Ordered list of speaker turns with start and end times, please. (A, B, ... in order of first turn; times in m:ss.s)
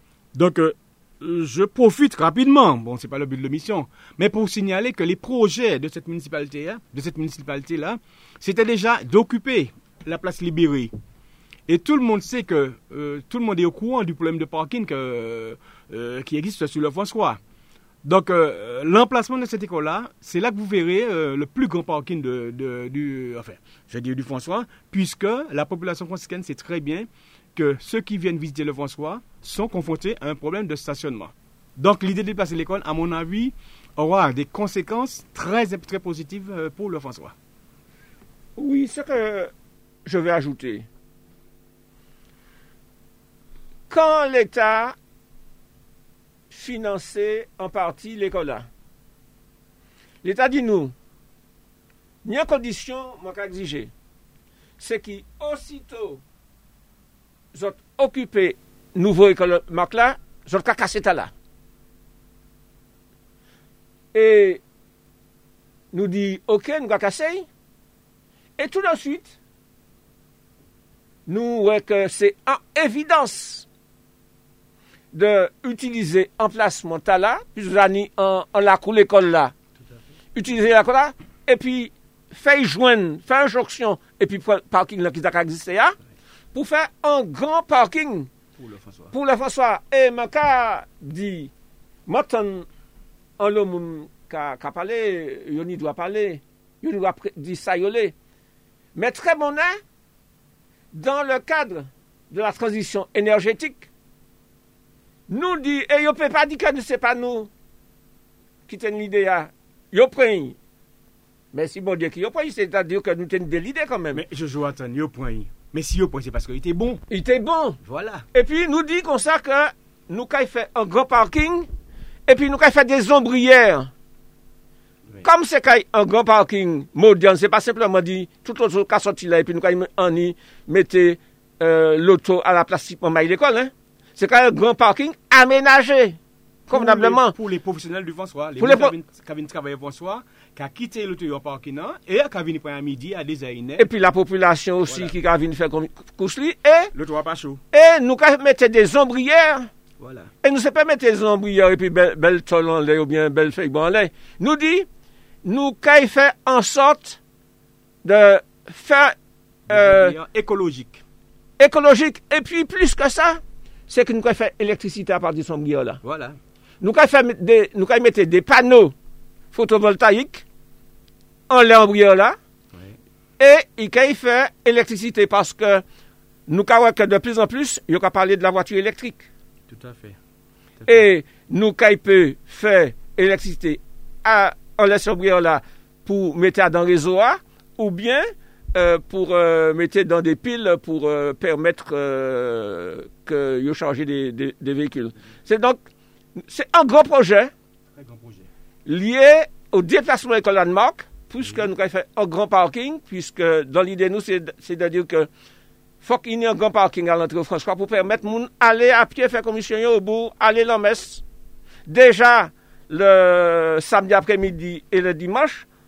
0:00.3-0:10.9 A
0:11.7-0:17.4 A
0:18.0-0:37.3 A
0:38.6-0:39.5 B
0:40.0-0:40.8 B
0:43.9-0:44.9 B
0:46.5-0:48.7 B
0:50.2-0:50.9 B
0:52.2-0:53.9 B
0:54.8-0:56.2 B
0:57.5-1:01.3 B
1:04.1-1:04.6 B
1:05.9-1:07.4 B
1:08.6-1:09.4 B
1:11.3-1:13.6 B
1:15.1-1:19.5 B
1:20.3-1:25.9 B
1:26.5-1:28.3 B
1:28.6-1:29.1 A
1:29.1-1:31.5 B
1:32.1-1:32.6 B
1:33.4-1:38.1 B
1:38.9-1:39.8 B
1:40.9-1:43.9 B
1:45.3-1:47.5 B
1:48.7-1:50.6 B
1:51.5-1:54.2 B
1:54.1-1:57.0 A
1:57.1-1:57.8 B
1:57.8-1:58.2 A
1:58.3-2:01.7 B
2:02.3-2:03.9 B
2:05.2-2:16.2 B
2:16.7-2:17.3 B
2:16.7-2:23.8 A
2:18.6-2:18.9 B
2:23.8-2:26.9 B
2:24.9-2:25.1 A
2:26.9-2:27.6 A
2:27.7-2:29.7 B
2:30.0-2:30.3 A
2:30.4-2:34.9 B
2:35.4-2:37.2 B
2:38.0-2:39.1 B
2:39.7-2:41.0 A
2:39.7-2:40.2 B
2:41.6-2:46.0 B
2:46.0-2:46.4 A
2:46.8-2:48.9 B
2:49.5-2:50.4 B
2:51.5-2:52.4 B
2:53.4-2:55.8 B
2:56.5-2:59.2 B
2:59.7-3:00.2 A
3:00.8-3:15.8 B
3:16.4-3:17.5 B
3:17.9-3:18.5 A
3:18.8-3:25.3 B
3:26.0-3:31.2 B
3:31.9-3:35.6 B